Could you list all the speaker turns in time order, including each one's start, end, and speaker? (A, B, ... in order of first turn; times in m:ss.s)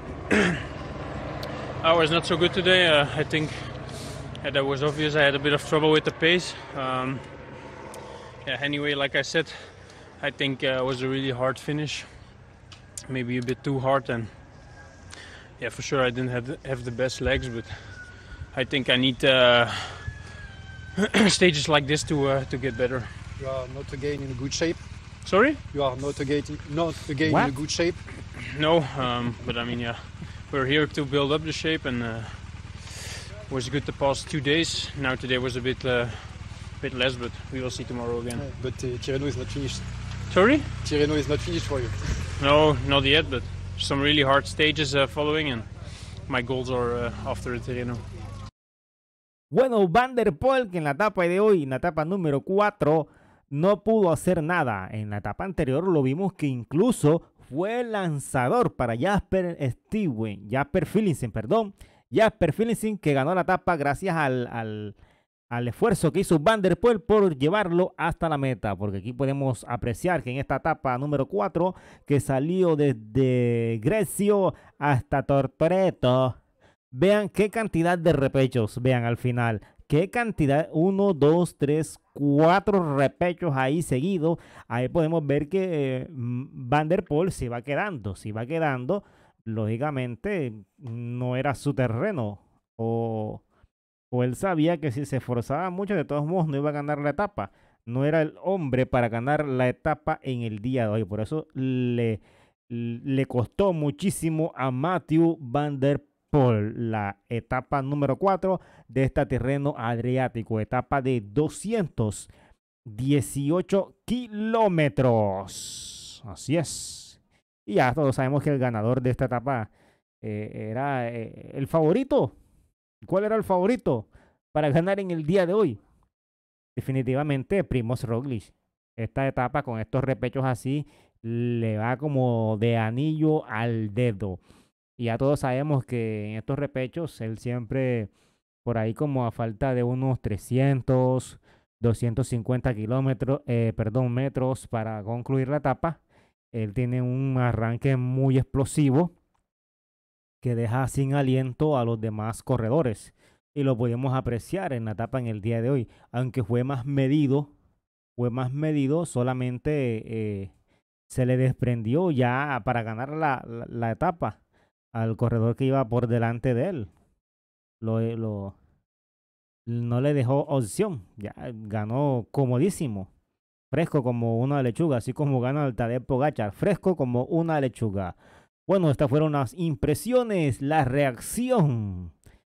0:01.8-0:03.8 A
0:04.4-0:07.3 A
0:08.4-0:12.1 A
0:13.1-0:14.3 A
0:15.6-0:20.3 A
0:21.0-0:23.1 A
0:23.4-0:24.8 B
0:25.2-0:25.6 A
0:25.7-0:28.0 B
0:27.3-0:27.5 C
0:28.4-0:38.5 A
0:38.3-0:39.8 B
0:40.3-0:40.7 A
0:40.8-0:42.1 B
0:42.4-0:45.7 A
0:46.2-0:48.0 A
0:49.5-1:04.9 C
1:05.5-1:16.4 C
1:16.9-1:33.4 C
1:34.1-1:52.3 C
1:52.8-1:59.7 C
2:00.2-2:02.3 C
2:03.0-2:05.8 C
2:06.8-2:14.4 C
2:15.0-2:18.1 C
2:18.6-2:26.0 C
2:26.5-2:29.1 C
2:30.4-2:37.5 C
2:38.2-2:40.5 C
2:41.1-2:44.4 C
2:44.9-2:46.9 C
2:47.8-2:48.5 C
2:49.7-2:53.1 C
2:53.7-2:58.2 C
2:58.7-3:02.1 C